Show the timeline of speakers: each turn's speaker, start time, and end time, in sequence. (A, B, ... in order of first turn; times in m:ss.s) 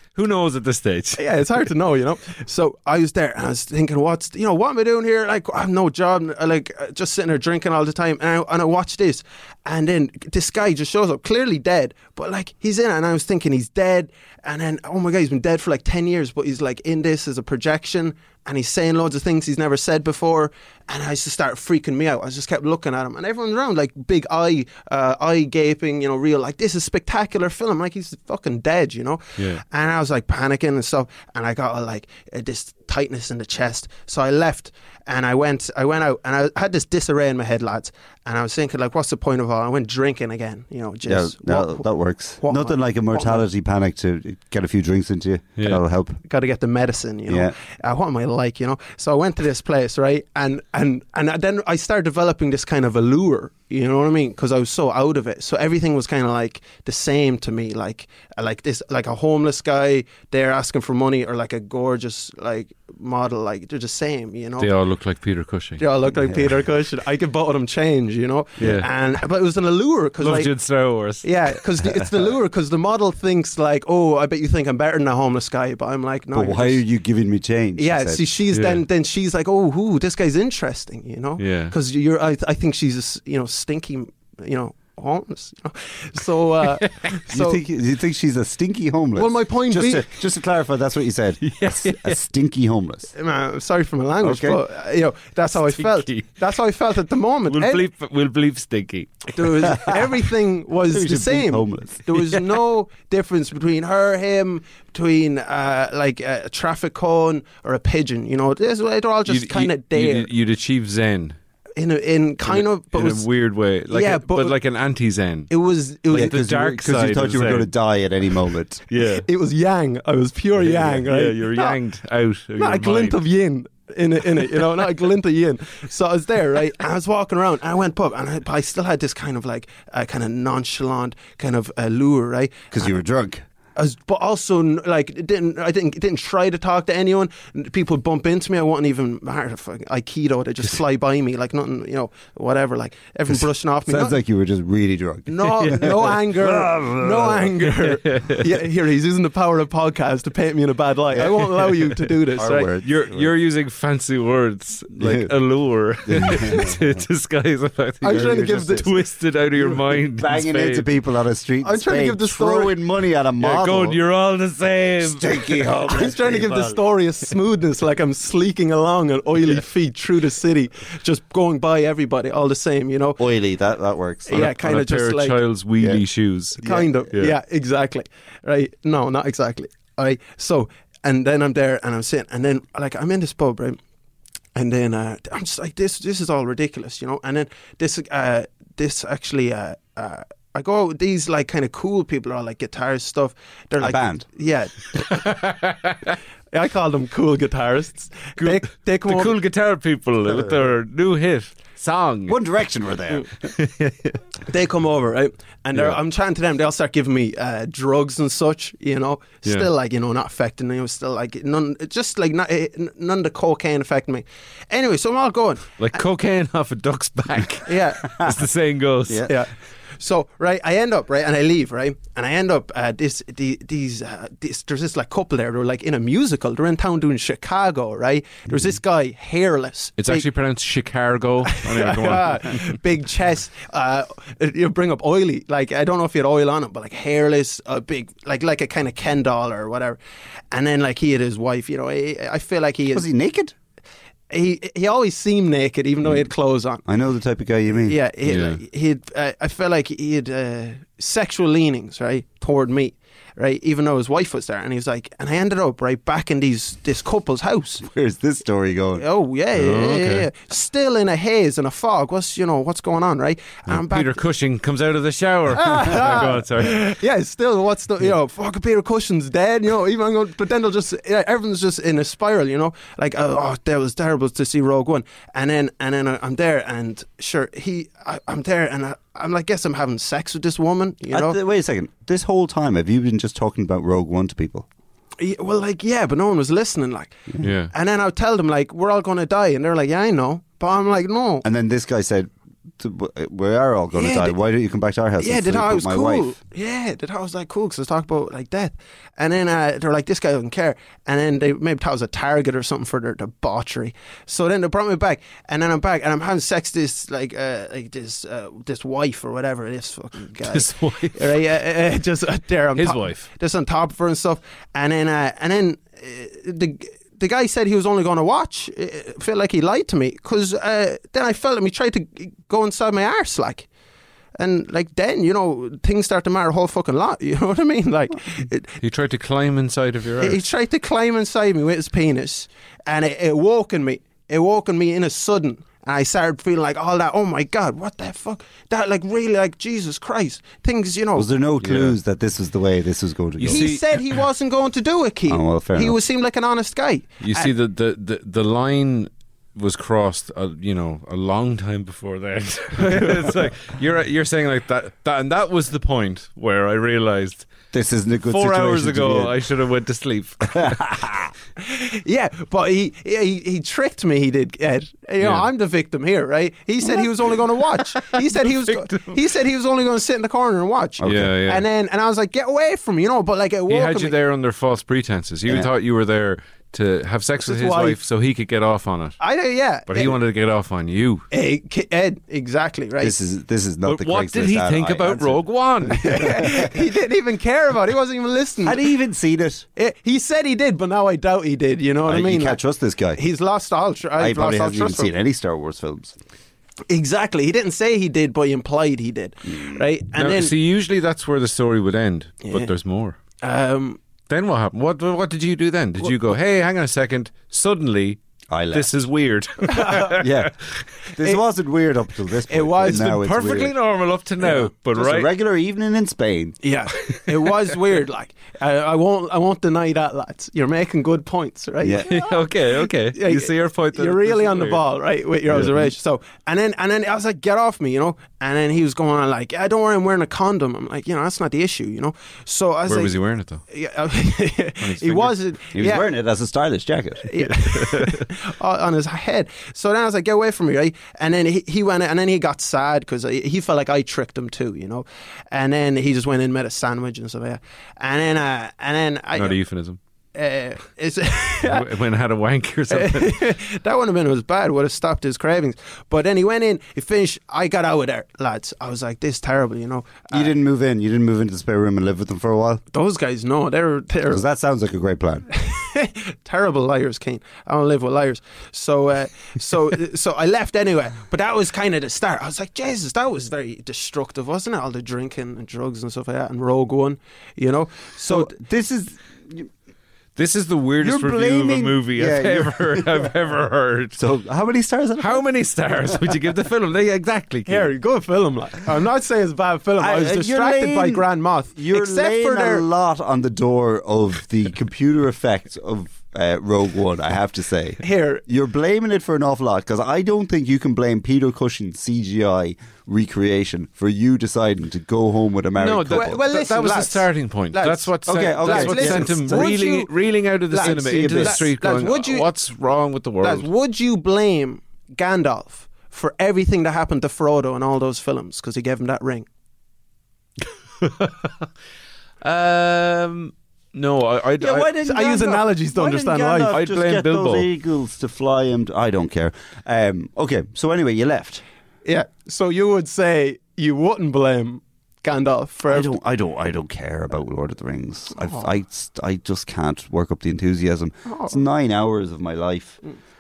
0:00.1-0:01.2 A
0:01.2-0:41.8 B
0:29.4-0:29.6 A
0:41.1-0:46.2 C
0:42.4-0:43.5 B
0:46.2-1:04.7 B
0:47.3-0:47.5 C
1:04.6-1:05.8 A
1:05.8-1:16.8 B
1:06.1-1:06.5 C
1:08.6-1:08.8 C
1:08.6-1:08.9 A
1:10.2-1:11.3 A
1:16.3-1:18.2 C
1:17.8-1:27.6 B
1:18.5-1:18.8 A
1:21.4-1:21.7 A
1:26.8-1:27.1 A
1:27.3-1:33.1 C
1:29.2-1:30.1 B
1:31.4-1:32.2 A
1:33.2-1:37.8 B
1:34.2-1:34.6 C
1:35.6-1:36.3 A
1:37.5-1:39.9 A
1:39.3-1:50.3 B
1:40.9-1:42.0 C
1:49.2-1:51.4 A
1:51.8-1:53.3 B
1:52.4-1:55.5 A
1:53.9-1:54.6 B
1:55.5-1:56.3 B
1:56.1-1:57.7 A
1:56.1-1:58.8 C
1:58.9-1:59.2 A
1:59.2-2:01.8 B
2:00.6-2:03.2 A
2:02.6-2:12.9 B
2:12.7-2:13.4 C
2:13.8-2:24.2 B
2:23.3-2:27.5 C
2:25.3-2:32.7 B
2:27.8-2:28.5 A
2:31.1-2:31.4 C
2:32.4-2:33.3 C
2:32.8-2:40.9 A
2:34.9-2:35.3 C
2:36.0-2:37.0 C
2:38.0-2:38.9 B
2:38.1-2:38.8 C
2:39.6-2:44.0 C
2:41.6-2:42.8 B
2:43.4-2:45.7 A
2:45.0-2:46.8 C
2:45.9-2:53.2 B
2:53.2-2:54.5 C
2:54.2-2:55.4 B
2:54.3-2:57.3 A
2:56.6-3:03.8 B
3:04.5-3:15.2 B
3:13.8-3:14.2 C
3:15.0-3:16.2 A
3:16.5-3:19.3 B
3:18.4-3:22.4 A
3:20.3-3:20.6 C
3:22.3-3:23.3 C
3:23.4-3:24.2 A
3:24.5-3:35.8 B
3:35.8-3:39.4 A
3:37.7-3:38.2 B
3:39.1-3:39.3 C
3:39.3-3:50.3 B
3:50.0-3:52.7 A
3:51.5-4:00.0 B
4:00.5-4:03.1 B
4:02.9-4:03.5 C
4:04.3-4:06.8 B
4:06.8-4:08.0 C
4:07.8-4:17.8 B
4:08.2-4:08.6 A
4:17.8-4:19.0 C
4:19.0-4:24.2 B
4:19.5-4:20.3 A
4:23.7-4:26.8 A
4:25.5-4:41.4 B
4:41.1-4:44.7 C
4:45.2-4:51.4 B
4:47.4-4:47.7 A
4:51.4-4:56.3 C
4:53.9-4:54.3 B
4:55.2-5:23.7 B
5:10.4-5:11.4 A
5:12.8-5:13.2 A
5:24.4-5:28.8 B
5:28.8-5:30.4 A
5:30.2-5:41.3 B
5:41.2-5:43.7 C
5:41.6-5:42.0 A
5:43.4-5:44.0 A
5:43.5-5:47.5 B
5:45.3-5:46.0 C
5:47.2-5:57.5 A
5:57.7-5:59.3 C
5:58.2-6:00.7 A
6:00.4-6:01.3 C
6:01.6-6:14.2 B
6:05.2-6:05.5 A
6:08.7-6:09.2 A
6:11.0-6:11.3 C
6:11.0-6:11.6 A
6:13.7-6:19.2 A
6:17.4-6:18.0 B
6:19.2-6:20.1 B
6:19.9-6:21.2 A
6:21.3-6:23.2 B
6:23.0-6:26.7 C
6:23.8-6:26.4 A
6:26.0-6:28.8 B
6:28.6-6:29.6 C
6:29.8-6:32.6 B
6:32.0-6:33.2 C
6:33.2-6:35.1 B
6:34.2-6:36.2 C
6:36.9-6:40.5 B
6:39.5-6:39.8 C
6:40.2-6:43.2 A
6:42.4-6:42.7 B
6:43.4-6:44.0 B
6:44.3-6:48.2 A
6:48.5-6:48.9 C
6:48.7-6:50.5 A
6:49.7-6:50.2 B
6:50.1-6:50.5 C
6:51.1-6:53.7 C
6:52.5-6:53.1 B
6:52.9-6:55.3 A
6:55.0-6:56.6 C
6:56.6-7:13.2 B
7:01.8-7:02.1 C
7:02.0-7:04.8 A
7:05.5-7:05.9 C
7:12.8-7:13.6 A
7:13.7-7:16.0 B
7:14.8-7:15.3 A
7:15.7-7:17.3 C
7:17.2-7:29.6 B
7:17.4-7:18.3 A
7:29.3-7:30.0 A
7:30.3-7:31.9 B
7:31.6-7:33.4 A
7:32.9-7:40.5 B
7:40.3-7:42.8 C
7:42.9-7:44.4 B
7:44.3-7:45.5 C
7:45.5-7:58.5 B
7:58.3-7:59.7 C
8:00.4-8:04.2 A
8:01.0-8:03.3 C
8:04.2-8:05.4 C
8:05.2-8:07.9 A
8:07.7-8:12.8 B
8:10.0-8:26.4 C
8:18.0-8:18.4 B
8:25.8-8:33.7 A
8:26.1-8:30.1 B
8:28.3-8:29.8 C
8:30.7-8:32.5 B
8:30.8-8:31.7 C
8:33.4-8:39.5 B
8:41.0-8:41.5 A
8:42.4-8:44.9 A
8:44.6-8:51.6 C
8:44.9-8:46.8 B
8:46.7-8:47.7 A
8:52.0-8:56.1 B
8:55.9-9:03.0 C
8:58.3-8:58.7 B
9:01.3-9:01.6 B